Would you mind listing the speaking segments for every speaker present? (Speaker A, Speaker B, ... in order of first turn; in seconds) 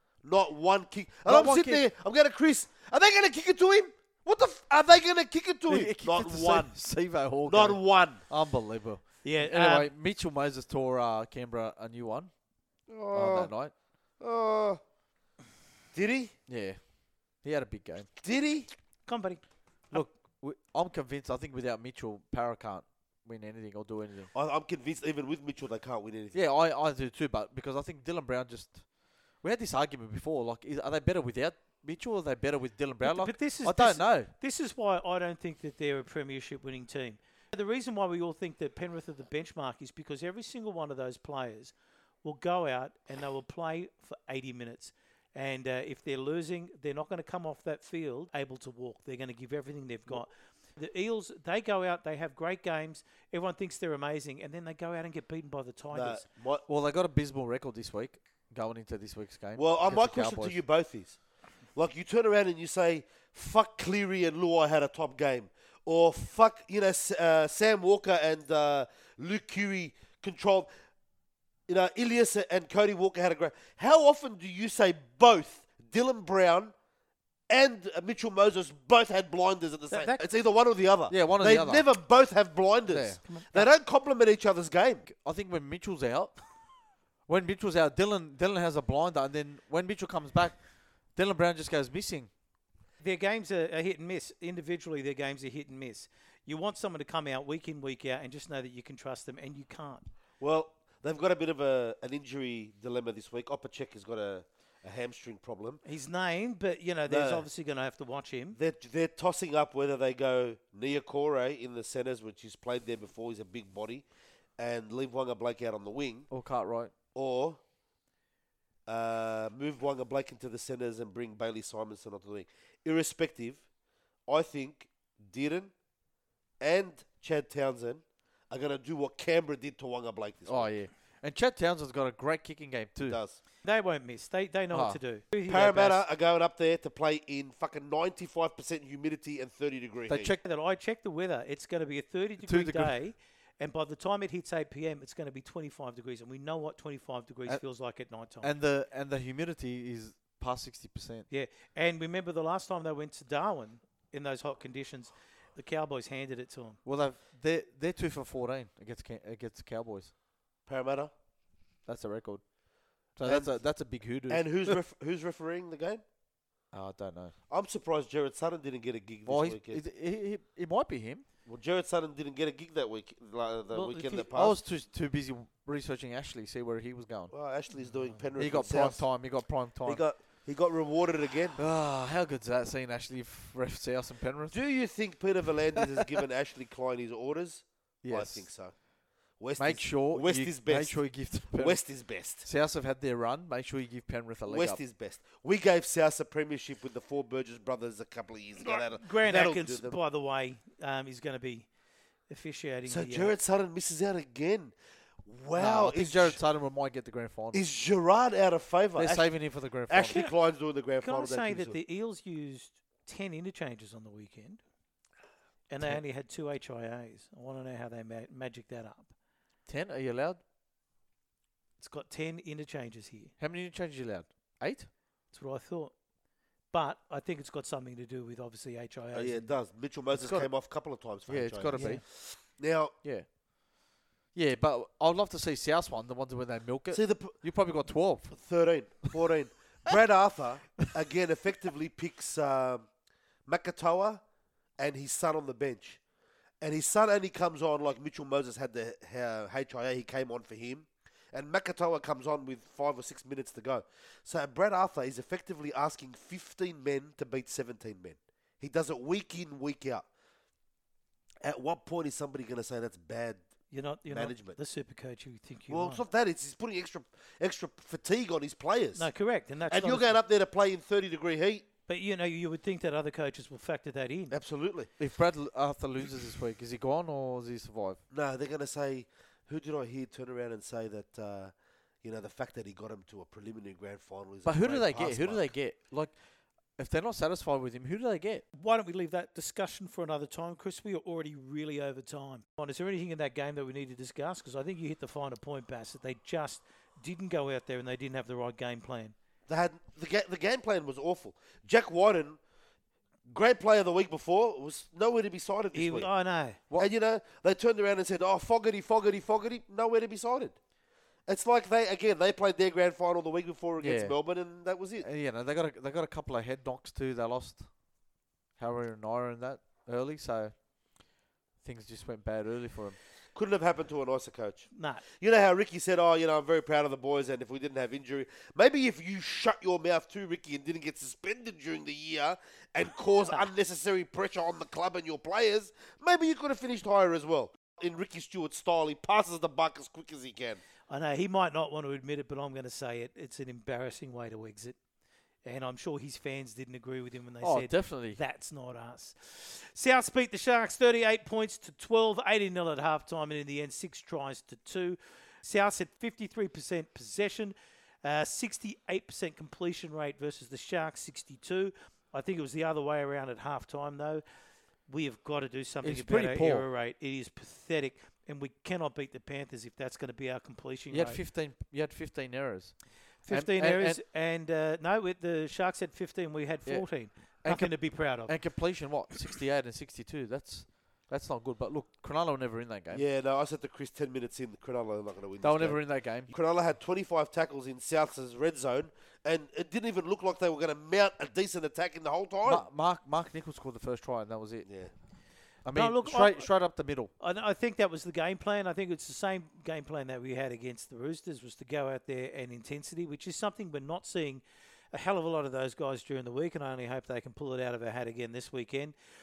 Speaker A: 0.2-6.8, 7.5-8.2, 12.9-13.5, 14.2-14.8, 15.9-16.3, 18.2-18.7, 24.3-26.4, 55.9-56.7, 59.6-61.2, 61.8-70.7, 71.7-76.7, 77.5-85.0, 100.4-105.8, 107.1-107.5, 108.6-114.0, 114.6-116.3, 117.2-117.6, 118.9-123.6, 124.3-125.7, 126.6-130.7, 133.1-133.4, 135.5-140.3, 160.7-161.1, 163.2-163.7, 164.3-166.0, 167.5-169.8, 171.5-174.6, 177.3-179.1, 179.9-181.6, 184.5-188.7, 189.4-192.4, 194.5-200.0, 202.9-206.4, 207.5-209.3, 209.9-211.8, 229.1-232.9, 236.9-237.4, 238.3-242.9, 243.5-244.2, 244.8-246.0, 246.6-260.1, 261.4-263.4, 264.1-264.6, 265.7-269.1, 269.7-271.6, 274.3-274.9, 278.1-285.5, 299.5-302.4, 303.3-306.1, 306.8-310.6, 311.3-315.1, 323.4-340.6, 382.9-392.6, 394.7-394.9
Speaker B: 1.3-1.8, 5.7-12.3, 13.1-13.7, 16.5-16.8, 17.4-18.1, 19.9-24.3, 26.3-28.8, 29.4-34.3, 56.7-60.6, 81.1-81.9, 82.9-83.2, 85.1-86.4, 87.3-90.6, 91.2-92.3, 116.3-116.9, 130.5-133.2, 134.7-135.0, 140.1-140.4, 142.5-142.9, 148.4-151.3, 156.8-160.1, 161.9-162.4, 163.2-164.8, 166.7-167.3, 169.3-171.2, 174.3-177.3, 178.4-180.0, 181.6-184.6, 188.0-188.5, 189.6-194.8, 205.6-207.6, 209.0-210.2, 219.7-220.4, 223.4-224.9, 230.1-230.5, 231.3-232.0, 234.3-238.4, 275.0-278.0, 284.5-286.1, 286.8-288.4, 313.8-314.1, 315.0-317.7, 318.6-320.5, 321.6-323.0, 347.4-348.2, 365.8-366.7, 370.9-374.0, 376.7-383.0, 385.4-386.3, 392.4-394.7, 395.6-397.1
Speaker C: 9.2-9.9, 19.1-20.1, 33.0-41.7, 42.2-56.2, 79.9-80.2, 83.3-83.7, 93.0-100.0, 105.8-108.6, 133.6-136.0, 140.4-148.5, 151.3-156.8, 173.7-174.3, 177.8-178.2, 198.6-201.7, 202.3-203.3, 211.0-214.6, 215.7-219.1, 221.8-223.3, 225.3-225.9, 226.7-229.5, 231.7-232.0, 263.7-266.0, 269.0-270.2, 271.9-274.4, 288.5-299.1, 305.7-306.6, 324.7-325.0, 340.9-344.8, 345.4-364.2, 364.9-371.2, 373.2-378.4, 395.7-396.5, 397.2-408.9